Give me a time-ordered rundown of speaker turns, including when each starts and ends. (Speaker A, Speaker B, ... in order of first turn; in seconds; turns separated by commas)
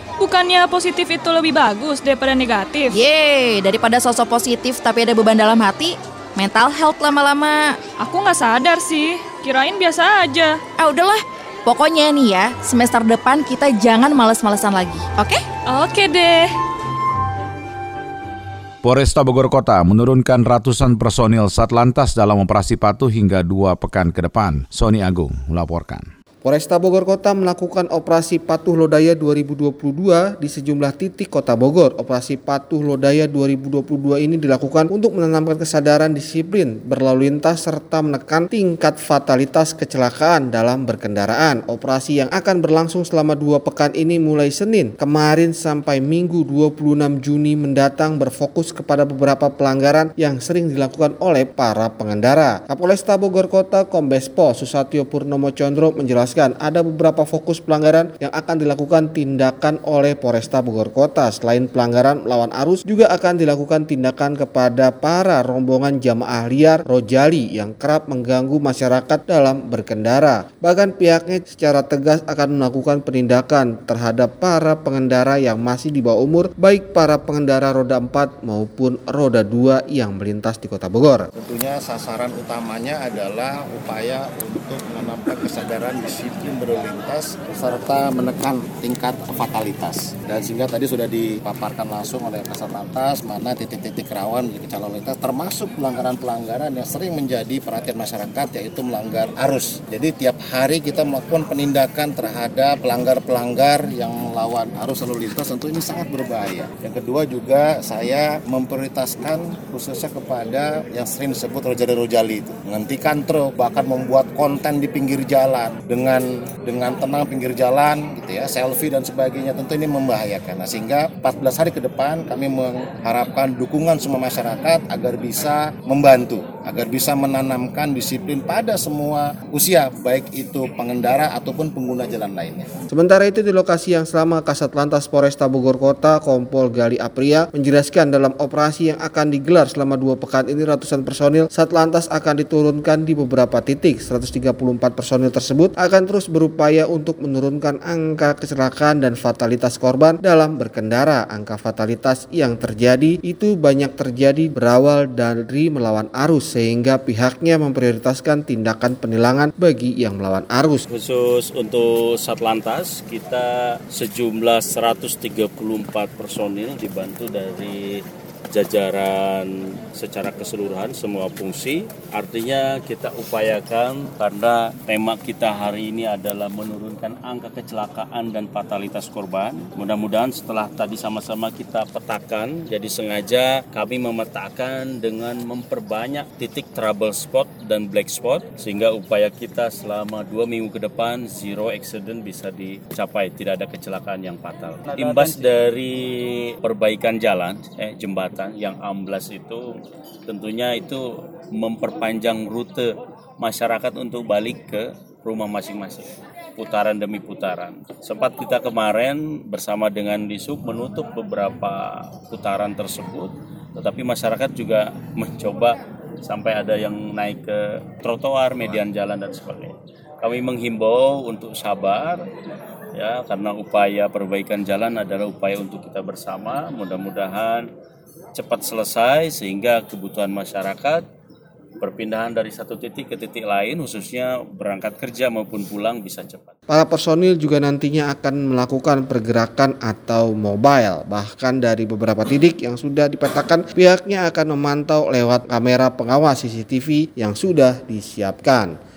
Speaker A: 0.2-2.9, Speaker B: 2.9-7.8, Speaker A: 8.0-10.6, Speaker B: 10.8-15.4, Speaker A: 15.7-16.5, Speaker C: 18.8-26.1, Speaker D: 26.4-81.3, Speaker E: 81.3-132.7, Speaker D: 132.9-160.8, Speaker F: 160.9-199.7, Speaker F: 200.3-222.2, Speaker F: 222.9-227.7, Speaker F: 228.3-231.0, Speaker F: 231.8-236.5, Speaker D: 236.7-248.7